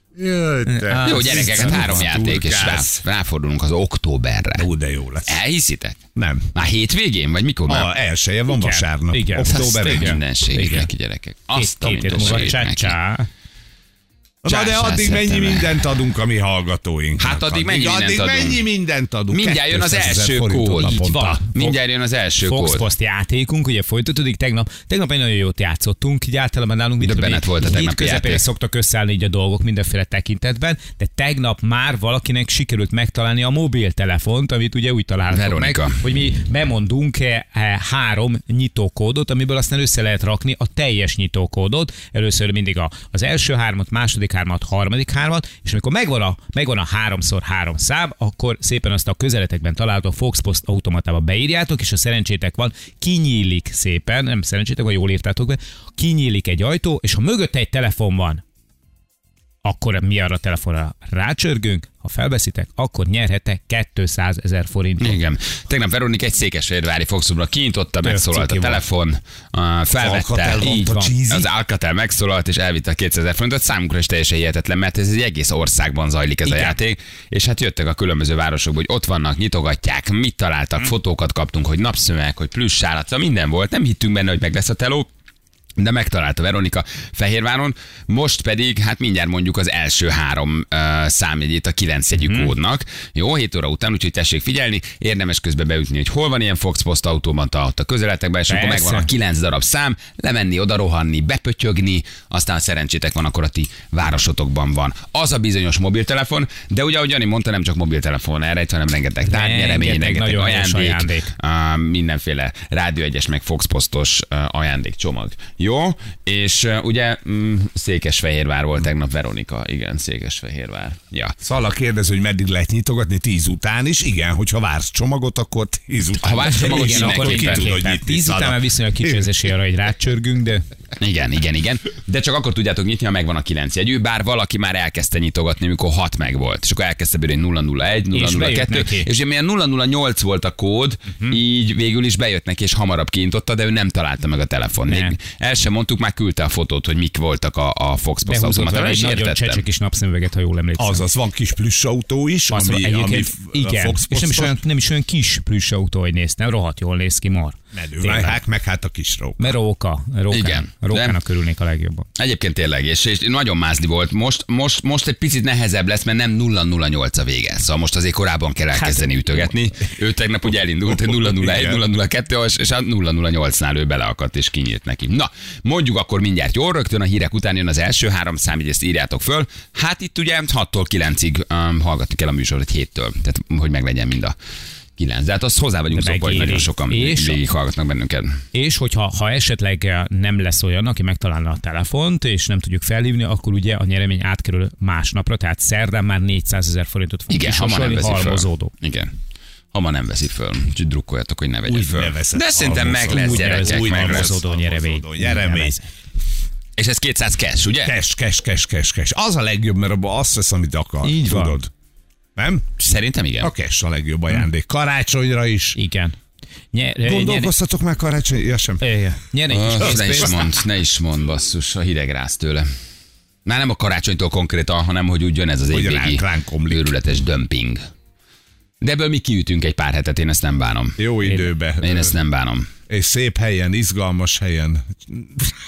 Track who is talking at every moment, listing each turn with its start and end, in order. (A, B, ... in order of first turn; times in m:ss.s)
0:00.2-0:03.0 A
0:00.7-0:02.0 B
0:01.0-0:04.7 C
0:04.6-0:05.4 A
0:05.3-0:06.0 C
0:06.2-0:06.5 A
0:06.5-0:07.9 C
0:07.7-0:10.2 A
0:08.5-0:10.9 B
0:09.4-0:12.9 C
0:11.5-0:13.3 B
0:14.4-0:21.7 A
0:14.5-0:15.8 C
0:17.2-0:18.6 C
0:19.3-0:21.0 C
0:20.8-0:21.7 B
0:21.5-0:22.9 C
0:22.4-0:58.4 B
0:27.0-0:28.4 C
0:35.3-0:36.0 C
0:59.6-1:05.2 B
1:05.0-1:25.1 C
1:08.0-1:08.8 B
1:09.9-1:11.5 A
1:16.4-1:16.8 B
1:25.8-2:01.4 C
1:32.2-1:32.5 B
1:38.5-1:39.1 B
1:49.2-1:51.3 B
2:01.4-2:09.3 A
2:06.2-2:07.8 C
2:06.5-2:10.6 B
2:11.0-2:29.6 C
2:18.1-2:19.1 B
2:24.9-2:25.2 B
2:28.3-2:31.1 B
2:30.8-2:34.6 A
2:32.5-2:38.4 B
2:37.7-2:39.6 A
2:39.4-2:42.1 B
2:40.3-2:41.2 C
2:42.2-3:04.4 C
2:48.8-2:49.5 B
2:50.8-2:51.8 A
3:05.0-3:08.4 C
3:05.9-3:07.4 B
3:08.5-3:18.7 B
3:17.3-3:19.1 C
3:19.7-3:24.4 C
3:21.7-3:25.8 A
3:23.1-3:25.9 B
3:26.8-3:27.9 C
3:27.8-3:31.7 A
3:31.0-3:31.6 B
3:32.4-3:32.7 A
3:32.8-3:33.5 C
3:33.4-3:35.8 A
3:35.8-3:36.2 B
3:36.7-3:37.5 B
3:37.0-3:38.8 A
3:38.8-3:40.4 B
3:39.5-3:42.7 C
3:39.8-3:40.4 A
3:43.4-3:47.8 C
3:45.7-3:46.9 A
3:48.8-3:52.7 C
3:51.0-3:52.2 A
3:52.9-3:55.6 A